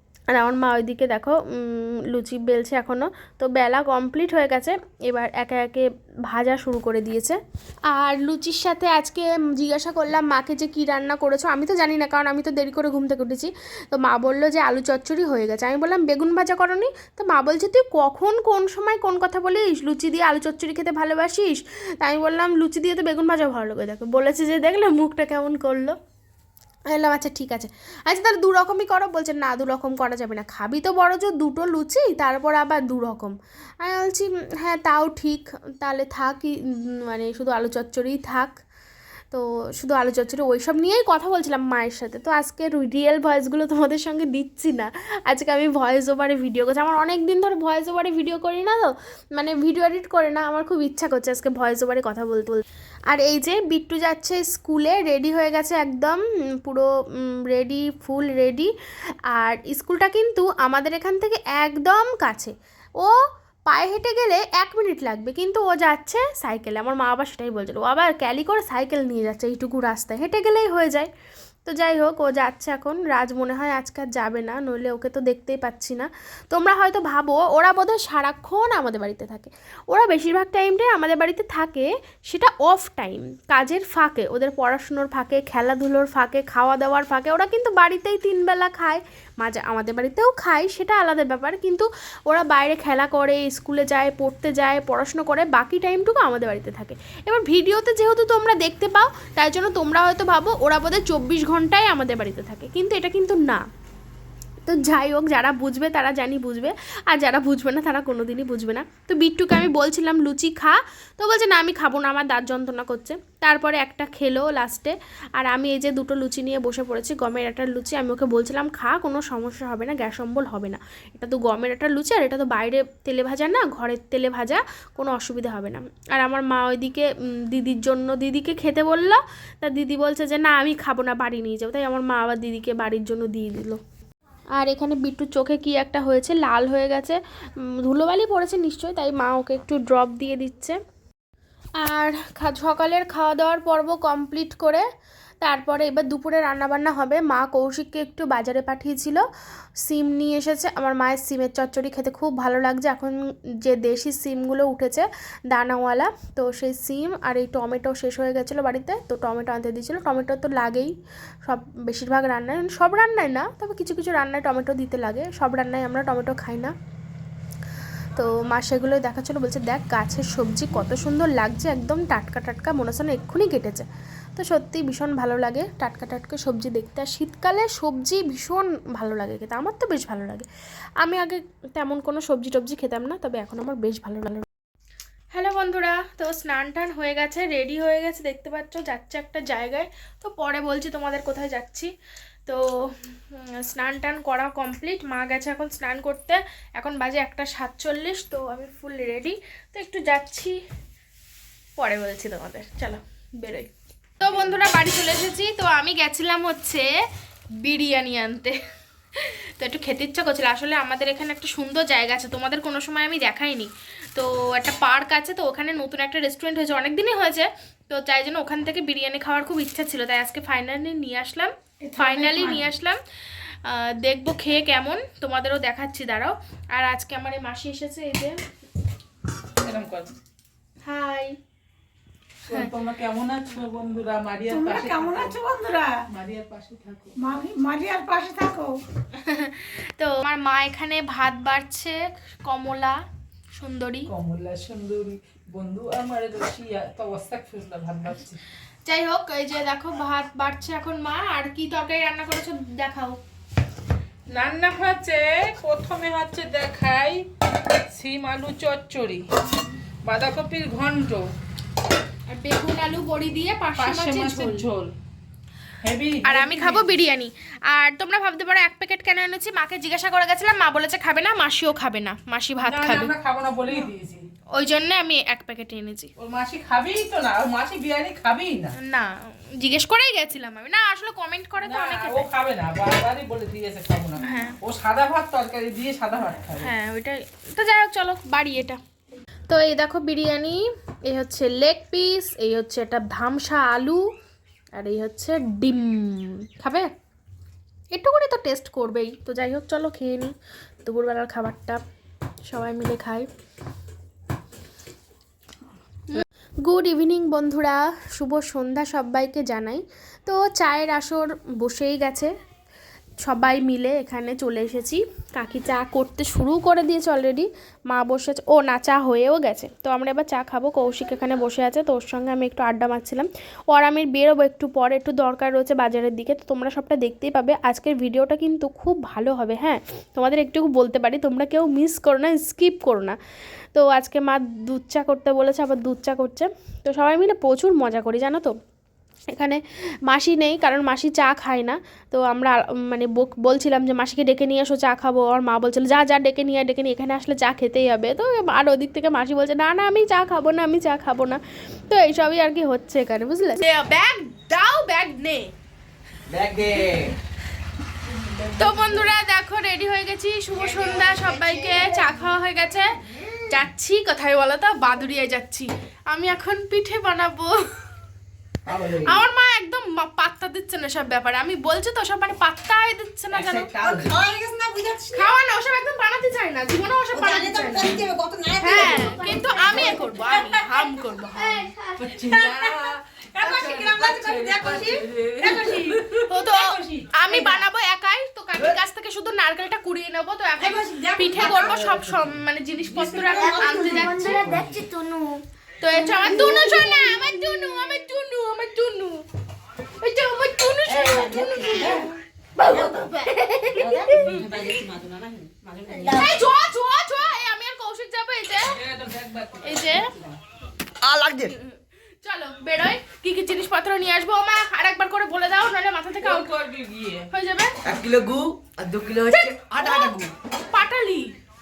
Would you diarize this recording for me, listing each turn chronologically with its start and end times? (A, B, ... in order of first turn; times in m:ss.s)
0:00.3-0:26.0 A
0:26.9-0:38.6 A
0:39.3-0:58.7 A
0:59.3-1:11.1 A
1:11.6-1:43.6 A
1:44.7-2:13.8 A
2:14.6-2:20.8 A
2:21.8-2:24.8 A
2:25.4-2:29.2 A
2:29.8-2:40.9 A
2:41.4-2:46.7 A
2:48.2-3:00.5 A
3:01.0-3:04.5 A
3:05.3-3:11.9 A
3:13.3-3:20.6 A
3:21.8-3:23.7 A
3:24.2-3:26.9 A
3:27.6-3:28.6 A
3:29.2-3:43.0 A
3:41.8-3:42.6 B
3:42.1-3:42.6 C
3:43.6-3:48.4 A
3:49.6-3:50.1 C
3:50.8-3:51.4 A
3:52.5-3:55.4 C
3:54.5-3:56.0 B
3:56.1-3:57.2 C
3:57.2-3:58.8 B
3:59.2-4:03.0 A
4:03.6-4:04.1 A
4:04.1-4:08.4 C
4:08.8-4:13.2 A
4:14.3-4:17.3 C
4:17.9-4:19.2 C
4:20.0-4:21.2 C
4:22.3-4:24.6 A
4:23.8-4:24.9 C
4:25.8-4:26.9 C
4:26.2-4:33.1 A
4:32.6-4:34.3 C
4:34.5-4:36.1 A
4:36.2-4:38.8 C
4:38.8-4:42.3 A
4:41.6-4:46.7 C
4:44.2-4:44.6 A
4:46.6-4:48.8 A
4:49.5-4:54.0 A
4:54.8-4:56.9 A
4:57.9-5:01.8 A
5:02.5-5:03.3 A
5:06.1-5:12.3 A
5:13.2-5:33.2 A
5:33.7-5:38.6 A
5:39.3-5:55.5 A
5:56.3-5:57.1 D
5:58.6-6:02.9 A
5:58.6-5:59.0 C
6:00.6-6:02.3 B
6:03.5-6:07.7 A
6:08.7-6:09.2 D
6:09.1-6:13.7 A
6:13.3-6:14.1 D
6:13.8-6:15.4 B
6:15.1-6:18.0 A
6:17.1-6:20.5 B
6:18.6-6:21.7 A
6:18.7-6:20.6 E
6:21.3-6:22.3 E
6:22.0-6:27.2 C
6:22.2-6:26.0 B
6:26.3-6:34.6 A
6:27.3-6:27.6 B
6:30.6-6:32.0 B
6:31.4-6:31.9 D
6:33.0-6:34.7 B
6:33.2-6:38.0 E
6:35.8-6:39.2 A
6:36.2-6:36.6 B
6:40.0-6:42.0 A
6:40.9-6:42.1 B
6:42.6-6:44.3 E
6:42.6-6:43.1 B
6:43.8-6:46.5 B
6:45.9-6:46.4 E
6:46.1-6:48.8 A
6:48.6-6:50.0 C
6:49.6-6:50.1 A
6:51.0-6:51.6 D
6:52.2-6:56.5 A
6:56.2-6:57.3 C
6:57.3-6:57.8 A
6:57.8-7:00.3 D
6:59.3-7:00.2 A
7:00.7-7:01.3 A